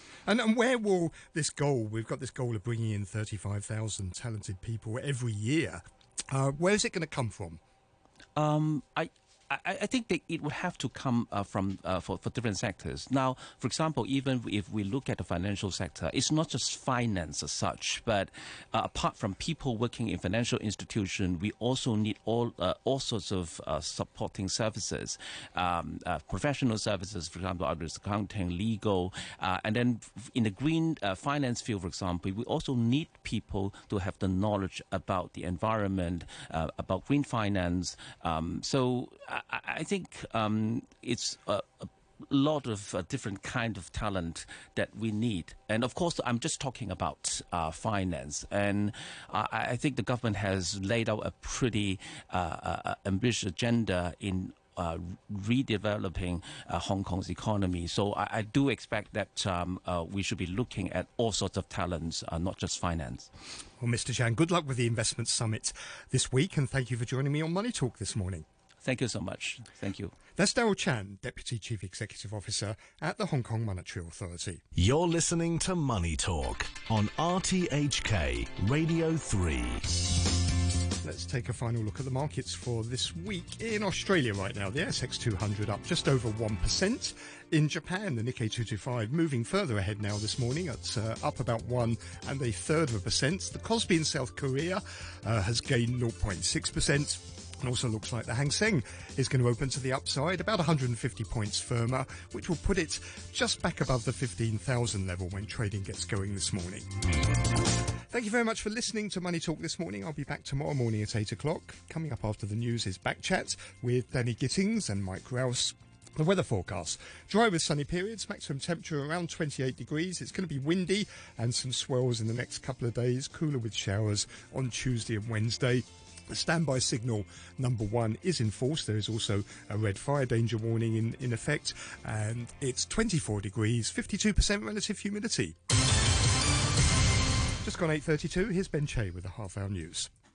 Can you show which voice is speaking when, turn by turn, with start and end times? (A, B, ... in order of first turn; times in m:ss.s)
0:00.2-0:07.6 A
0:08.4-1:03.3 B
1:03.8-1:08.4 A
1:08.8-1:10.2 B
1:10.4-1:14.6 A
1:14.7-1:19.9 C
1:21.0-1:46.9 A
1:48.1-2:15.6 A
2:17.6-2:20.1 A